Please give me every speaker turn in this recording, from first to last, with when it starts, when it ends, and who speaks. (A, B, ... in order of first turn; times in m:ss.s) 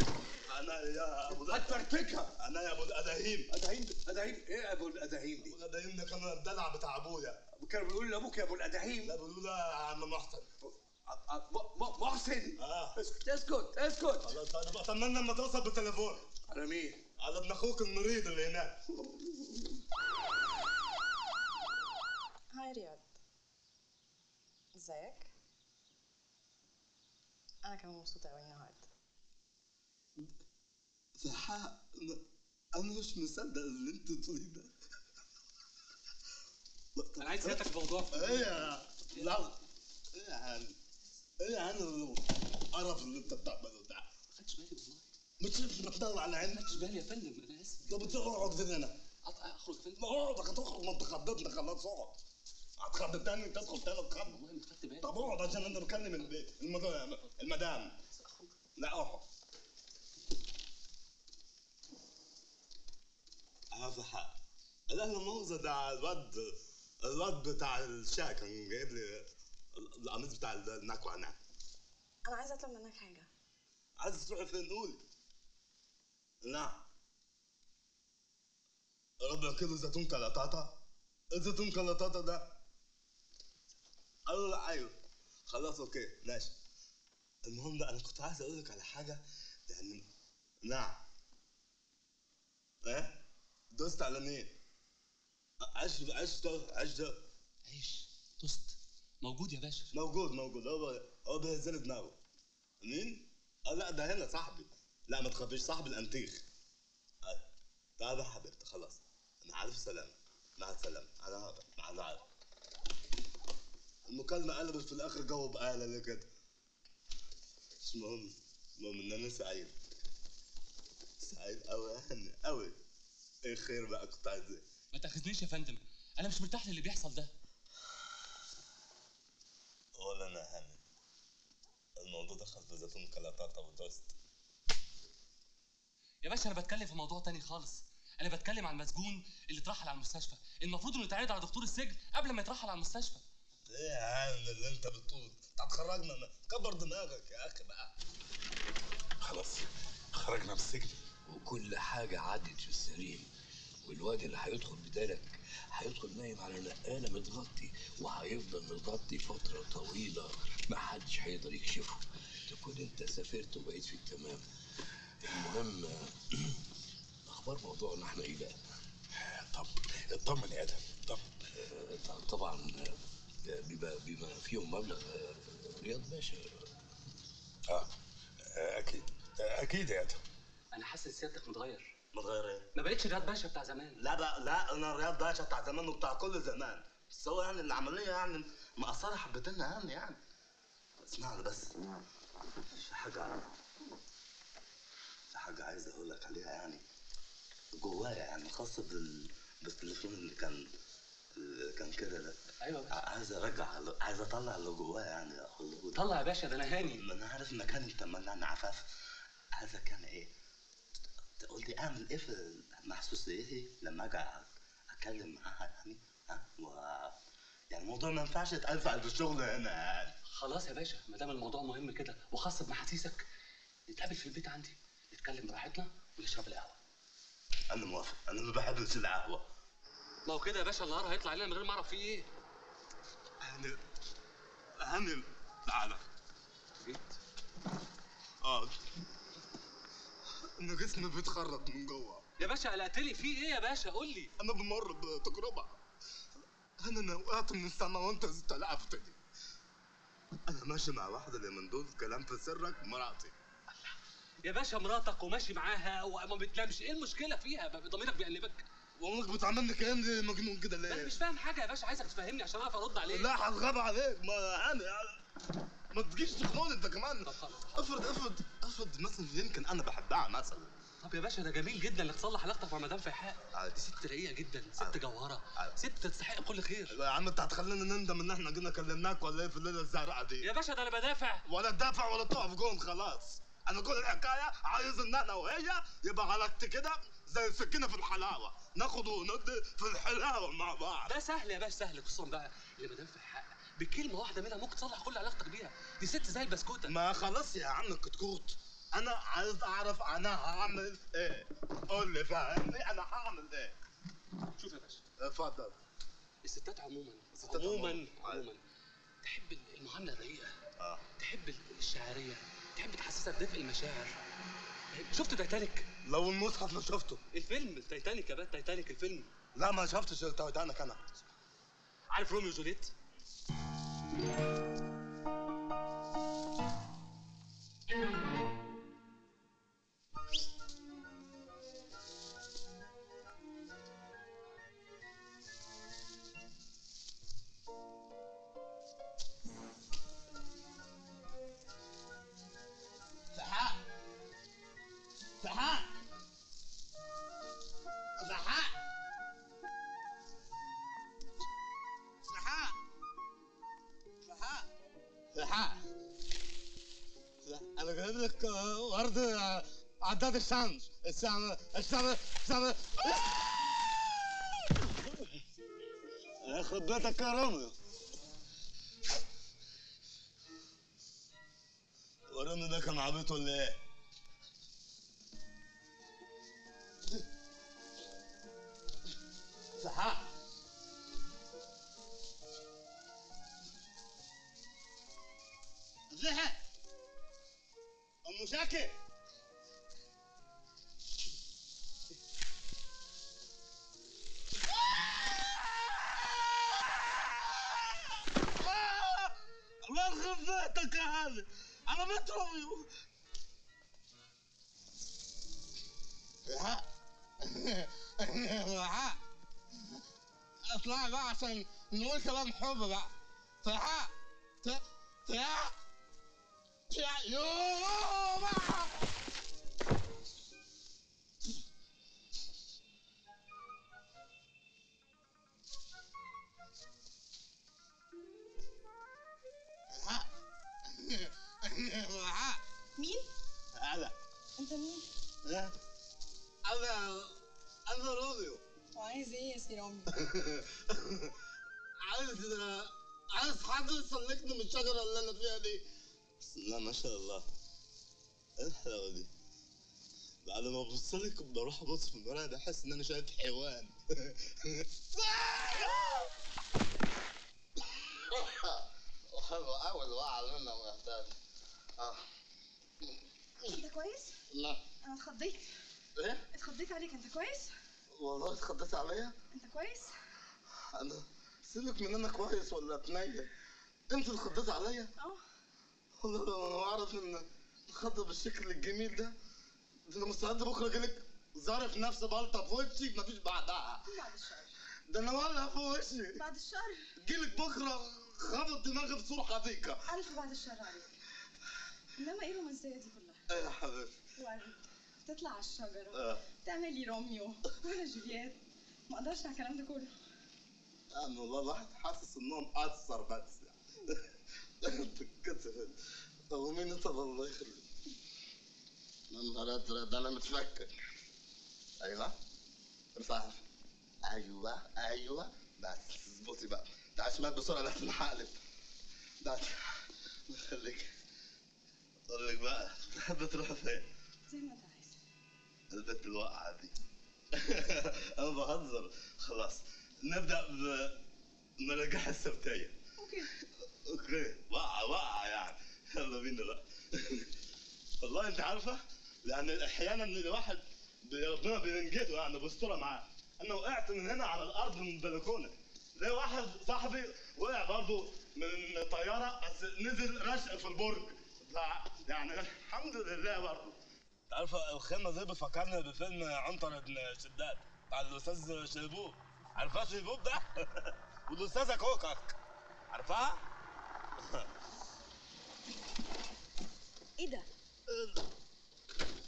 0:00.3-0:03.5 A
0:01.3-0:02.3 B
0:03.5-0:05.6 B
0:05.4-0:07.4 A
0:07.5-0:09.2 B
0:09.0-0:10.5 A
0:10.7-0:14.3 B
0:12.6-0:12.9 A
0:14.2-0:16.2 A
0:16.5-0:17.0 B
0:17.2-0:18.8 A
0:19.0-0:19.3 B
0:22.5-0:23.1 C
0:24.7-0:25.3 C
0:27.6-0:28.9 C
0:31.2-0:32.2 A
0:32.7-0:34.7 A
0:36.9-0:39.6 A
0:37.2-0:39.4 D
0:40.1-0:40.8 A
0:41.4-0:44.1 A
0:44.3-0:45.0 D
0:45.4-0:46.8 A
0:46.4-0:48.1 D
0:47.8-0:49.0 A
0:49.2-0:50.0 D
0:50.0-0:52.2 A
0:52.8-0:54.4 A
0:53.8-0:56.3 D
0:55.0-0:58.0 A
0:58.2-0:58.5 D
0:58.8-0:59.2 A
1:03.7-1:04.4 A
1:04.9-1:11.4 A
1:12.2-1:13.3 C
1:14.0-1:15.0 A
1:16.4-1:16.8 A
1:19.2-1:20.8 A
1:21.3-1:22.5 A
1:24.3-1:24.9 A
1:25.5-1:26.5 A
1:27.4-1:30.0 A
1:30.6-1:31.0 A
1:32.8-1:33.2 A
1:33.7-1:34.5 A
1:35.6-1:37.2 A
1:37.6-1:39.9 D
1:39.9-1:42.2 A
1:42.8-1:46.4 A
1:48.0-1:52.2 A
1:54.1-1:56.3 A
1:57.8-1:59.7 A
2:01.2-2:02.7 A
2:03.4-2:04.6 A
2:04.9-2:07.3 D
2:10.0-2:10.8 A
2:12.0-2:14.1 A
2:16.2-2:23.2 D
2:23.7-2:27.9 A
2:29.2-2:30.9 E
2:31.3-2:33.3 F
2:33.8-2:44.4 F
2:45.2-2:46.6 F
2:47.2-2:48.6 F
2:50.1-2:50.6 B
2:50.8-2:56.7 F
2:58.5-3:00.2 E
3:00.7-3:01.9 D
3:02.1-3:02.7 A
3:02.7-3:04.0 D
3:04.0-3:10.2 A
3:11.0-3:11.7 A
3:12.7-3:13.4 A
3:15.3-3:16.8 A
3:17.7-3:20.7 A
3:21.4-3:22.4 A
3:22.6-3:23.0 D
3:22.9-3:26.1 A
3:25.9-3:27.0 D
3:26.8-3:28.9 A
3:29.5-3:30.3 A
3:31.4-3:37.2 A
3:37.7-3:40.1 A
3:40.3-3:43.2 D
3:43.9-3:46.8 D
3:47.7-3:49.4 A
3:50.2-3:52.3 D
3:53.4-3:53.8 A
3:54.8-3:56.0 A
3:56.8-3:57.2 D
3:58.4-3:58.8 A
4:00.5-4:02.2 A
4:02.4-4:04.3 D
4:04.4-4:05.8 A
4:06.8-4:09.2 A
4:10.5-4:13.3 A
4:13.8-4:18.6 D
4:19.0-4:21.2 A
4:20.9-4:23.3 D
4:23.0-4:25.2 A
4:25.9-4:30.7 A
4:27.2-4:28.0 D
4:31.0-4:37.0 D
4:33.5-4:33.8 A
4:36.9-4:40.5 A
4:40.4-4:41.4 D
4:41.4-4:51.2 A
4:51.0-4:57.0 D
4:56.8-5:03.7 A
5:04.6-5:05.0 D
5:05.2-5:05.8 A
5:06.4-5:08.6 D
5:07.3-5:08.5 A
5:09.2-5:10.5 D
5:10.8-5:11.0 A
5:11.2-5:14.2 D
5:14.9-5:15.9 D
5:16.0-5:17.2 A
5:17.3-5:19.3 D
5:19.5-5:21.0 A
5:22.1-5:22.9 D
5:43.3-5:43.8 A
5:45.4-5:45.9 A
5:48.2-5:48.7 A
5:52.2-5:52.8 A
5:54.3-5:54.7 A
5:55.3-5:55.8 A
5:57.4-6:03.7 A
6:04.7-6:05.4 A
6:06.4-6:07.7 A
6:12.3-6:13.8 A
6:19.8-6:20.3 A
6:26.1-6:26.6 A
6:28.2-6:28.9 A
6:34.8-6:42.9 A
6:46.5-6:46.8 A
6:47.4-6:49.2 A
6:50.6-6:53.1 A
6:53.6-6:55.7 A
6:56.9-6:59.0 A
7:09.9-7:10.2 A
7:10.9-7:12.6 A
7:13.0-7:13.3 C
7:13.7-7:14.1 A
7:14.6-7:15.1 C
7:15.4-7:15.7 A
7:16.6-7:18.6 A
7:18.9-7:20.3 C
7:20.2-7:21.3 A
7:22.0-7:25.8 A
7:26.4-7:27.4 A
7:28.6-7:29.3 A
7:30.4-7:36.3 A
7:38.1-7:41.3 A
7:42.0-7:42.2 A
7:43.7-7:44.4 C
7:44.5-7:44.8 A
7:45.0-7:45.7 C
7:46.2-7:46.4 A
7:46.5-7:47.7 C
7:48.1-7:49.3 A
7:49.5-7:50.1 C
7:50.9-7:53.5 A
7:54.1-7:55.1 A
7:56.2-7:59.3 A
8:00.1-8:04.1 A
8:04.0-8:04.7 C
8:05.1-8:06.4 A
8:06.4-8:07.0 C
8:07.2-8:10.0 A
8:10.1-8:11.1 C
8:12.1-8:13.4 C
8:13.5-8:14.1 A
8:14.4-8:20.1 C
8:16.1-8:16.4 A
8:21.1-8:24.3 A
8:24.8-8:27.9 A
8:29.3-8:30.9 A
8:32.0-8:32.4 A
8:33.1-8:33.6 A
8:34.2-8:38.6 A
8:39.4-8:41.1 A
8:42.3-8:44.1 A
8:44.5-8:45.2 C
8:45.9-8:46.9 A
8:47.5-8:51.2 A
8:51.8-8:52.9 A
8:53.2-8:53.5 C
8:54.0-8:57.5 A
8:58.2-9:14.0 A
9:14.5-9:22.6 A
9:23.1-9:23.6 A
9:24.4-9:24.7 A
9:27.4-9:27.7 C
9:28.1-9:28.4 A